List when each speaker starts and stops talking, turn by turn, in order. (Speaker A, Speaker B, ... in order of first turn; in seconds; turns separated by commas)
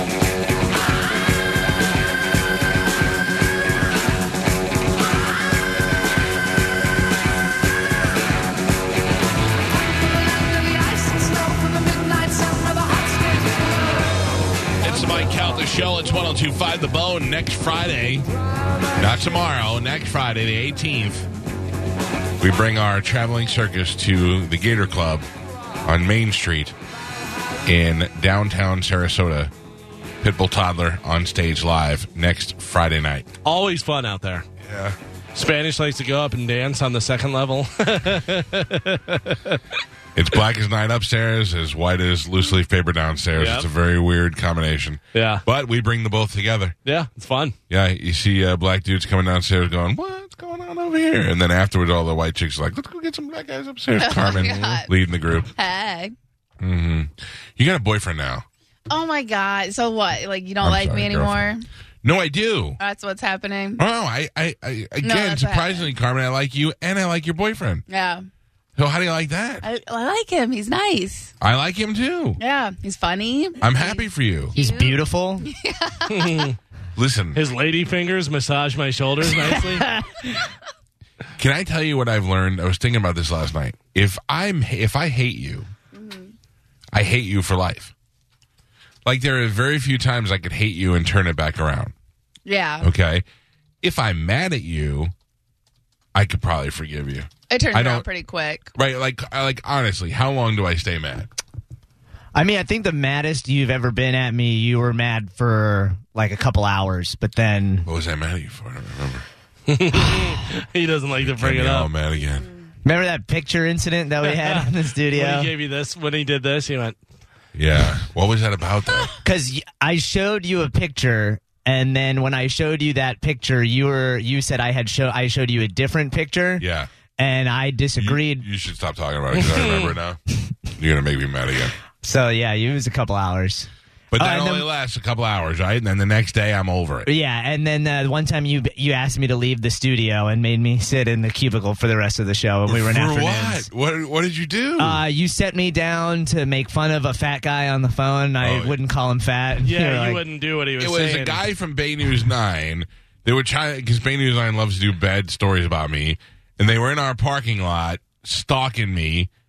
Speaker A: 14.8-18.3, Speaker A: 19.0-21.3, Speaker A: 22.4-25.3, Speaker A: 25.8-26.8, Speaker A: 27.6-29.5, Speaker A: 30.2-33.3, Speaker B: 33.5-34.5, Speaker A: 34.6-35.0, Speaker B: 35.4-39.6, Speaker A: 40.1-46.8, Speaker B: 43.4-43.7, Speaker B: 45.1-45.4, Speaker B: 46.9-47.5, Speaker A: 47.7-55.5, Speaker C: 54.0-54.9, Speaker C: 55.5-56.1, Speaker A: 56.6-58.5, Speaker C: 58.9-61.6, Speaker A: 60.6-61.4, Speaker A: 62.0-62.8, Speaker C: 62.8-63.8, Speaker A: 63.8-67.8, Speaker C: 65.0-65.9, Speaker C: 67.9-68.3, Speaker A: 68.8-69.7, Speaker C: 69.6-71.3, Speaker A: 71.4-72.4, Speaker C: 72.4-76.5, Speaker A: 73.6-74.5, Speaker D: 74.5-75.5, Speaker B: 76.1-76.6, Speaker A: 77.0-77.4, Speaker B: 77.3-79.9, Speaker D: 79.5-80.5, Speaker A: 81.4-85.7, Speaker C: 85.9-86.3, Speaker A: 86.9-87.9, Speaker A: 89.0-91.9, Speaker C: 92.5-92.9, Speaker A: 92.8-93.2, Speaker A: 93.8-95.1, Speaker A: 96.2-98.1, Speaker C: 97.5-98.7, Speaker A: 98.8-101.3, Speaker D: 102.3-107.9, Speaker A: 107.9-109.2, Speaker B: 109.7-111.9, Speaker A: 111.2-112.5, Speaker D: 112.8-115.5, Speaker B: 114.2-117.0, Speaker A: 117.5-119.1, Speaker D: 119.2-126.7, Speaker A: 126.6-126.9, Speaker D: 127.2-128.5, Speaker A: 128.0-130.2, Speaker B: 129.3-129.9, Speaker A: 130.8-131.7, Speaker D: 132.0-134.7, Speaker A: 134.1-137.1, Speaker D: 137.1-143.7, Speaker A: 142.7-145.0, Speaker D: 144.8-150.2, Speaker A: 148.4-148.8, Speaker B: 149.6-151.5, Speaker A: 150.8-159.3